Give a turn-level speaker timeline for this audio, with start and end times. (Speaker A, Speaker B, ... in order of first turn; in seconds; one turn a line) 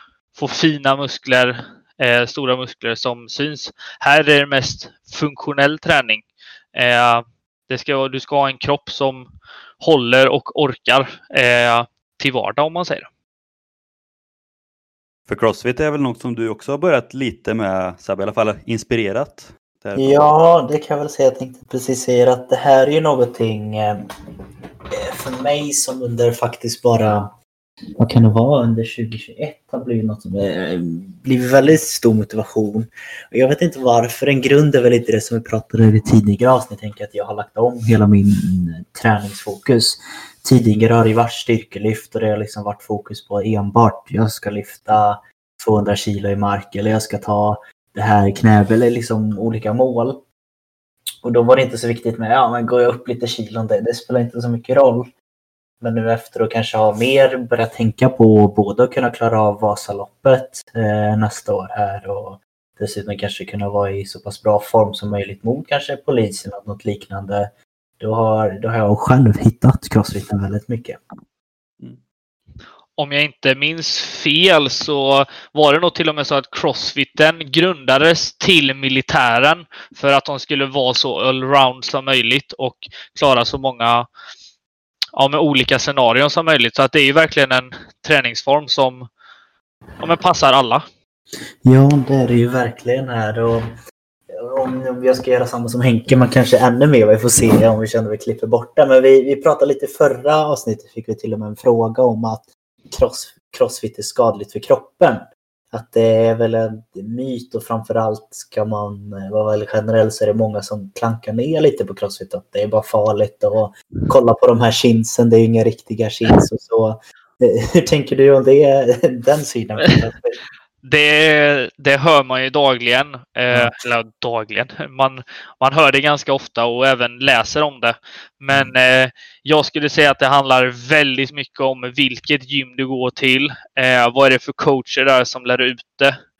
Speaker A: 0.3-9.3
Speaker A: 9.8-13.1
Speaker B: 15.3-20.3
Speaker C: 19.9-24.0
Speaker C: 24.9-27.3
Speaker C: 28.0-50.2
Speaker C: 51.2-55.1
Speaker C: 55.8-71.0
Speaker A: 73.0-84.1
Speaker A: 85.2-89.1
Speaker A: 90.0-90.8
Speaker C: 91.6-93.7
Speaker C: 94.3-120.3
Speaker A: 120.8-136.1